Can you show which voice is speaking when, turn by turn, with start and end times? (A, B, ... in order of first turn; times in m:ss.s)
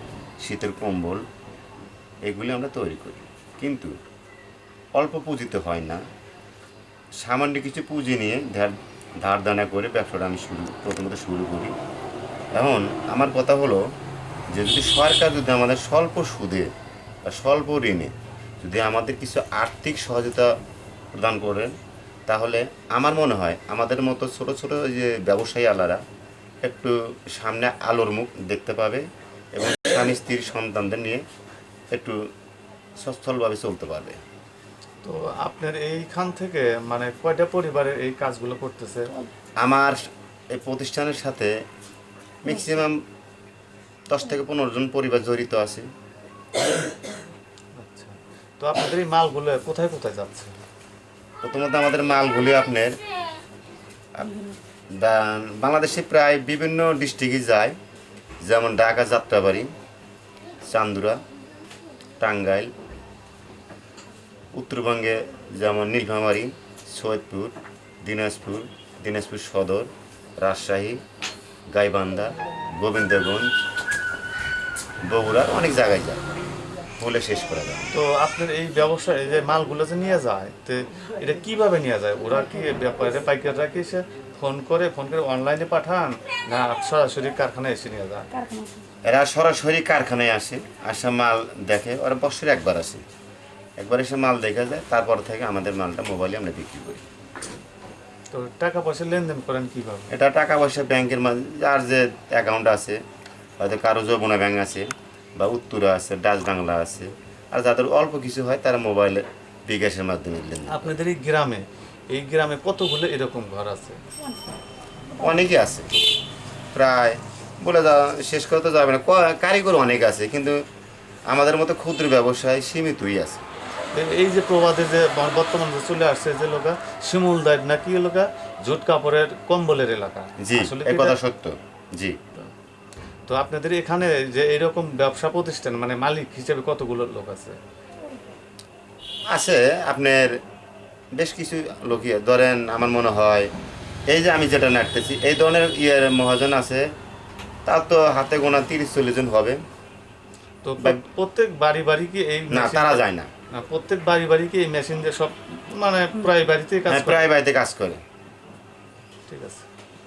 0:00.4-0:01.2 A
0:02.2-0:04.0 A
0:05.0-0:06.0 A
0:07.2-0:11.7 A
0:12.5-0:13.8 A
0:14.5-0:16.7 A
0:17.3-0:20.5 A
0:21.1-0:21.7 A
0:22.3-0:26.0 A
0:26.6-0:31.2 A
0:31.9-0:32.2 A
0:33.0-0:34.2 A
0:35.0-0:39.1 B
0:39.6-0:40.0 A
0:40.5-0:41.5 A
0:42.4-0:43.0 A
0:44.1-0:45.9 A
0:47.8-0:50.5 B
0:51.4-0:53.0 A
0:54.2-0:54.4 A
0:55.0-0:57.8 A
0:58.4-0:59.7 A
1:00.6-1:01.2 A
1:02.2-1:02.7 A
1:04.5-1:11.0 A
1:11.7-1:13.5 A
1:15.1-1:16.2 A
1:17.0-1:17.9 A
1:17.9-1:28.3 B
1:29.1-1:33.0 A
1:33.8-1:37.0 A
1:38.3-1:40.1 B
1:40.1-1:43.0 A
1:43.6-1:50.9 A
1:50.7-1:54.0 B
1:55.2-1:55.9 A
1:56.7-2:00.6 A
2:01.3-2:03.4 A
2:03.9-2:11.2 B
2:10.4-2:12.2 A
2:13.3-2:17.6 B
2:19.3-2:20.3 A
2:21.2-2:23.5 A
2:24.1-2:26.8 A
2:27.6-2:29.6 A
2:30.6-2:37.2 B
2:32.5-2:33.3 A
2:36.9-2:38.0 A
2:39.3-2:39.6 B